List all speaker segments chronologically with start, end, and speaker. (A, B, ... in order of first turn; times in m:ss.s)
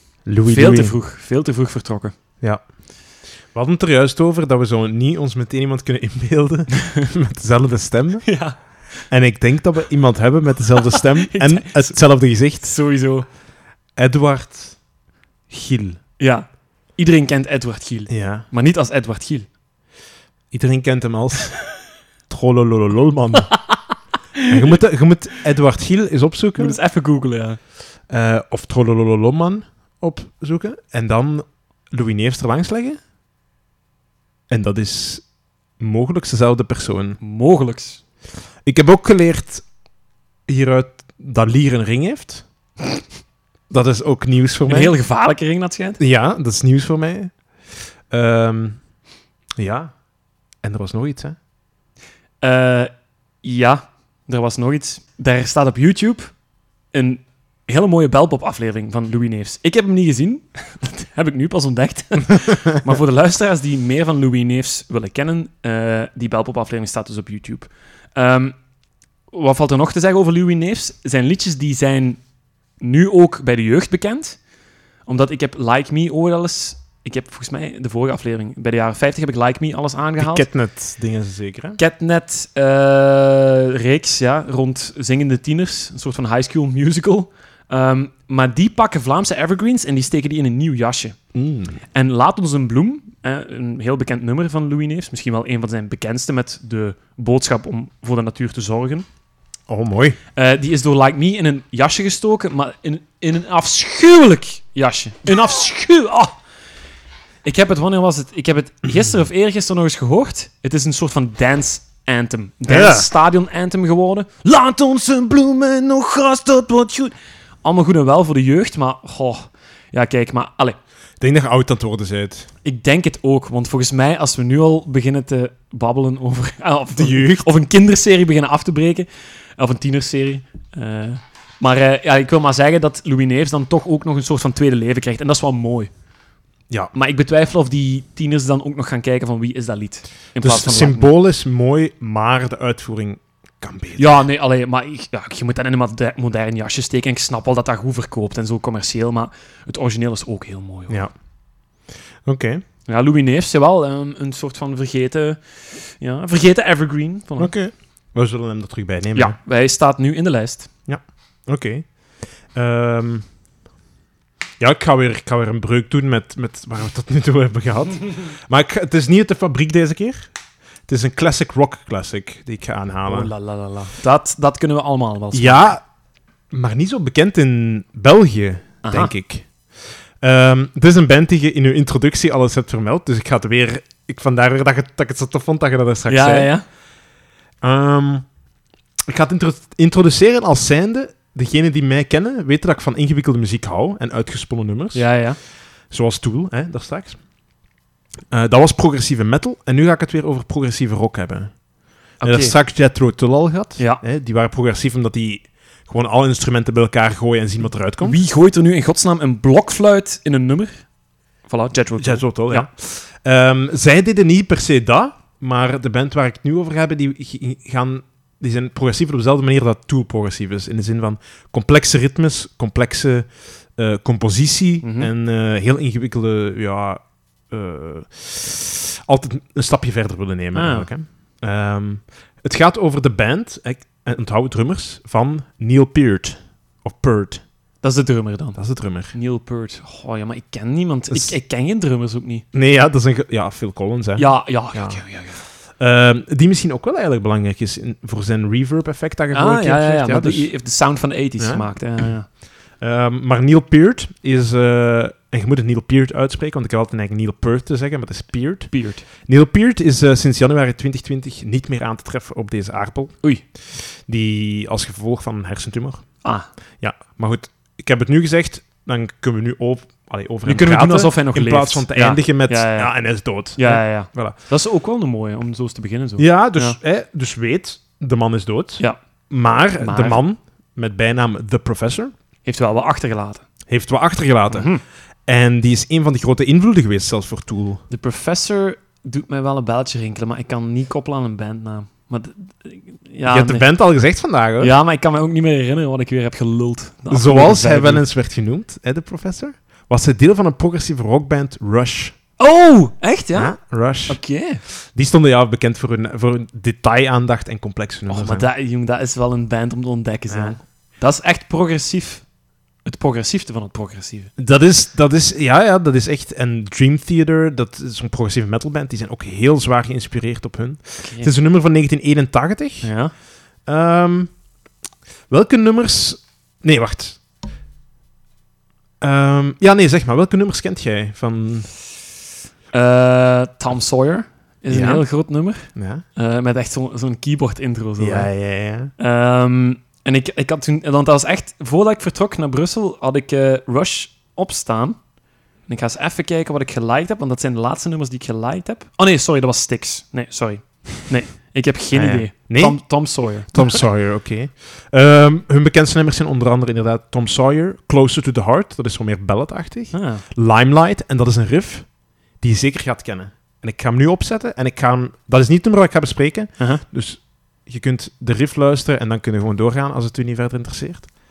0:00.3-0:00.9 A
0:00.4-0:02.2 B
0:03.5-0:08.4 A
0:08.3-0:08.6 B
0:09.1-0:12.7 A
0:10.9-0:12.0 B
0:12.6-0:13.3 B
0:14.0-0:14.8 A
0:15.5-0:16.0 A
0:16.2-0:19.5 B
0:18.1-0:18.5 A
0:20.5-0:21.6 A
0:22.3-0:23.6 A
0:23.5-0:23.8 B
0:24.4-0:24.8 B
0:24.5-0:26.8 A
0:26.6-0:27.6 B
0:28.1-0:33.0 A
0:34.5-0:35.2 A
0:35.8-0:37.2 A
0:37.2-0:38.0 B
0:38.7-0:39.6 A
0:40.5-0:42.4 A
0:43.7-0:45.0 A
0:44.7-0:46.0 B
0:46.0-0:47.3 A
0:48.1-0:48.8 A
0:49.6-0:49.9 A
0:50.6-0:51.4 A
0:52.4-0:52.9 B
0:53.4-0:56.3 B
0:56.9-1:08.6 B
1:09.3-1:12.2 B
1:12.8-1:14.4 B
1:15.1-1:20.5 B
1:20.2-1:21.8 A
1:21.8-1:31.2 B
1:31.4-1:31.8 A
1:31.9-1:39.1 B
1:39.7-1:40.2 A
1:40.4-1:46.4 B
1:47.4-1:59.4 B
1:48.9-1:49.1 A
1:52.7-1:53.1 A
1:59.9-2:00.8 B
2:01.2-2:02.5 A
2:02.6-2:15.9 B
2:06.9-2:07.5 A
2:16.9-2:21.1 B
2:20.4-2:24.2 A
2:24.0-2:31.1 B
2:32.2-2:32.6 A
2:32.9-2:37.5 B
2:37.4-2:39.4 A
2:39.1-2:40.7 B
2:40.9-2:41.9 A
2:42.6-2:43.2 A
2:44.6-2:50.3 A
2:50.9-2:53.3 A
2:53.1-2:55.7 B
2:55.3-2:55.8 A
2:56.5-2:59.5 A
2:58.8-2:59.1 B
3:00.2-3:06.6 A
3:06.1-3:06.6 B
3:07.6-3:08.3 A
3:09.1-3:15.1 A
3:14.9-3:15.4 B
3:15.9-3:17.2 A
3:18.3-3:21.5 A
3:22.2-3:22.6 B
3:22.2-3:28.2 A
3:28.0-3:30.8 B
3:31.5-3:32.7 B
3:32.0-3:57.4 A
3:44.8-3:45.1 B
3:50.5-3:50.9 B
3:57.8-4:02.4 B
3:58.6-3:59.1 A
4:01.1-4:01.4 A
4:02.5-4:10.5 A
4:04.2-4:05.4 B
4:09.3-4:12.3 B
4:11.4-4:11.7 A
4:12.8-4:26.2 A
4:18.7-4:19.0 B
4:26.8-4:34.4 A
4:30.5-4:36.8 B
4:36.2-4:42.1 A
4:39.8-4:40.2 B
4:42.5-4:43.4 B
4:43.7-4:44.7 A
4:44.5-4:44.8 B
4:45.3-4:47.8 A
4:47.9-4:53.7 B
4:53.3-4:54.7 A
4:54.6-4:58.0 B
4:57.1-5:02.2 A
5:02.4-5:03.6 B
5:03.3-5:08.5 A
5:04.1-5:04.6 B
5:08.1-5:12.3 B
5:10.3-5:10.6 A
5:12.8-5:14.3 B
5:14.4-5:22.9 A
5:21.0-5:21.3 B
5:22.8-5:23.1 B
5:23.7-5:24.3 A
5:25.3-5:27.2 A
5:29.0-5:31.7 A
5:32.7-5:38.3 B
5:34.7-5:35.0 A
5:35.8-5:36.0 A
5:38.0-5:38.9 A
5:39.0-5:45.0 B
5:45.7-5:53.8 B
5:51.9-6:11.1 A
5:59.9-6:00.2 B